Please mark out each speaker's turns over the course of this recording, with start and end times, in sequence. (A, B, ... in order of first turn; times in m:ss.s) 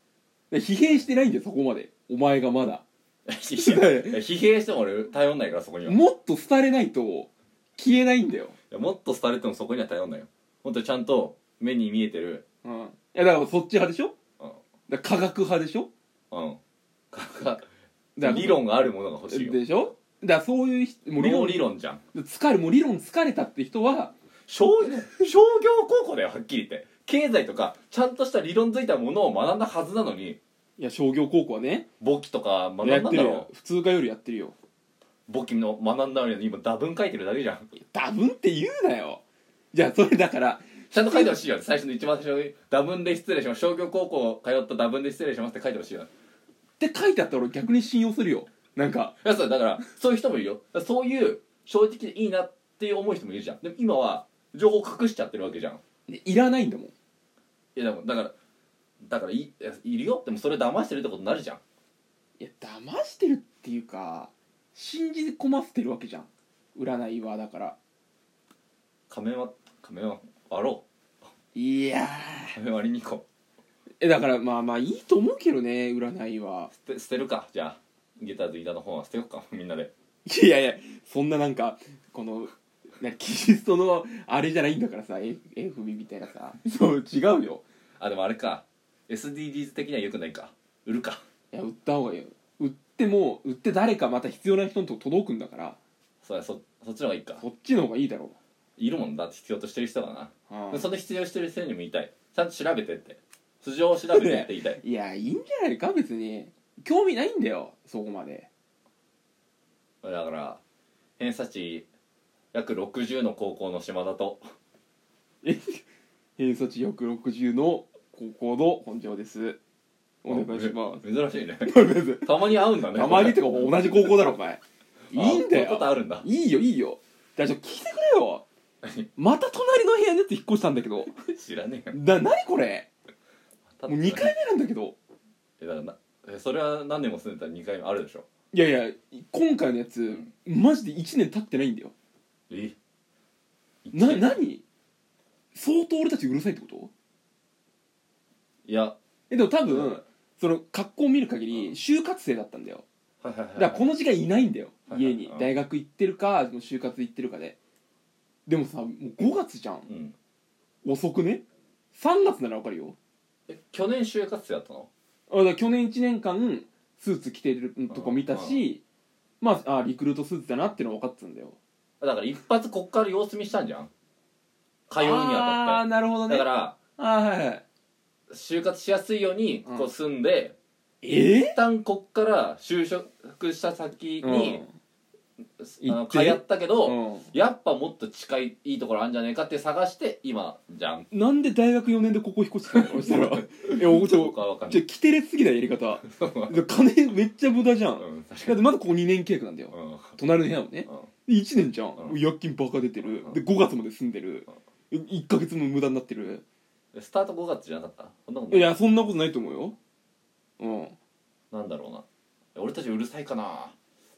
0:00.5-0:02.8 A
0:03.3-0:06.0 B
0:03.5-0:04.2 A
0:05.8-0:08.6 A
0:08.7-0:12.4 B
0:12.6-0:14.2 A
0:14.9-0:15.9 A
0:16.3-0:16.6 B
0:17.1-0:17.7 B
0:18.2-0:24.1 A
0:18.2-0:19.6 B
0:21.2-0:22.0 B
0:24.5-0:30.4 B
0:30.8-0:31.9 A
0:32.0-0:33.5 B
0:32.8-0:34.6 A
0:35.3-0:37.7 B
0:37.8-0:41.3 A
0:40.9-0:46.1 B
0:46.8-0:49.2 A
0:49.2-0:55.8 B
0:56.1-0:56.9 A
0:57.8-0:58.4 B
0:59.1-1:01.6 B
1:02.4-1:07.8 A
1:09.1-1:10.8 B
1:11.6-1:12.6 A
1:12.6-1:13.2 B
1:14.0-1:16.7 A
1:16.7-1:19.9 B
1:20.3-1:27.6 A
1:28.0-1:31.2 B
1:31.5-1:35.8 A
1:36.2-1:37.4 B
1:37.4-1:38.4 A
1:38.8-1:44.8 B
1:40.5-1:40.9 A
1:44.1-1:48.5 A
1:50.0-1:50.6 B
1:51.2-1:51.9 B
1:52.5-1:54.4 B
1:55.4-1:55.8 A
1:56.4-1:59.6 A
2:00.2-2:01.0 A
2:00.3-2:04.4 B
2:01.6-2:04.6 A
2:05.1-2:08.4 A
2:05.1-2:06.3 B
2:08.8-2:09.1 B
2:09.2-2:11.1 A
2:11.2-2:12.0 B
2:11.9-2:12.9 A
2:13.8-2:14.3 B
2:13.9-2:15.0 A
2:15.6-2:18.3 B
2:18.5-2:21.9 A
2:22.5-2:22.8 B
2:23.8-2:24.4 B
2:23.9-2:24.6 A
2:25.5-2:26.9 A
2:28.7-2:29.0 B
2:29.3-2:32.8 A
2:29.6-2:30.0 B
2:33.2-2:33.8 B
2:33.6-2:37.6 A
2:34.9-2:35.5 B
2:38.5-2:39.9 A
2:39.9-2:40.2 B
2:40.8-2:43.0 A
2:43.5-2:44.9 B
2:45.3-2:48.8 A
2:47.9-2:48.6 B
2:49.4-2:51.6 A
2:52.0-2:53.9 B
2:54.9-2:56.8 B
2:55.0-2:57.6 A
2:58.3-3:00.6 B
3:01.0-3:01.6 A
3:01.4-3:04.6 B
3:04.2-3:04.7 A
3:05.6-3:11.1 B
3:05.8-3:07.3 A
3:11.1-3:26.4 A
3:12.7-3:14.8 B
3:16.0-3:16.6 B
3:18.0-3:18.6 B
3:19.7-3:20.2 B
3:23.0-3:23.4 B
3:26.9-3:28.7 B
3:28.5-3:29.8 A
3:30.6-3:31.0 A
3:31.5-3:33.8 B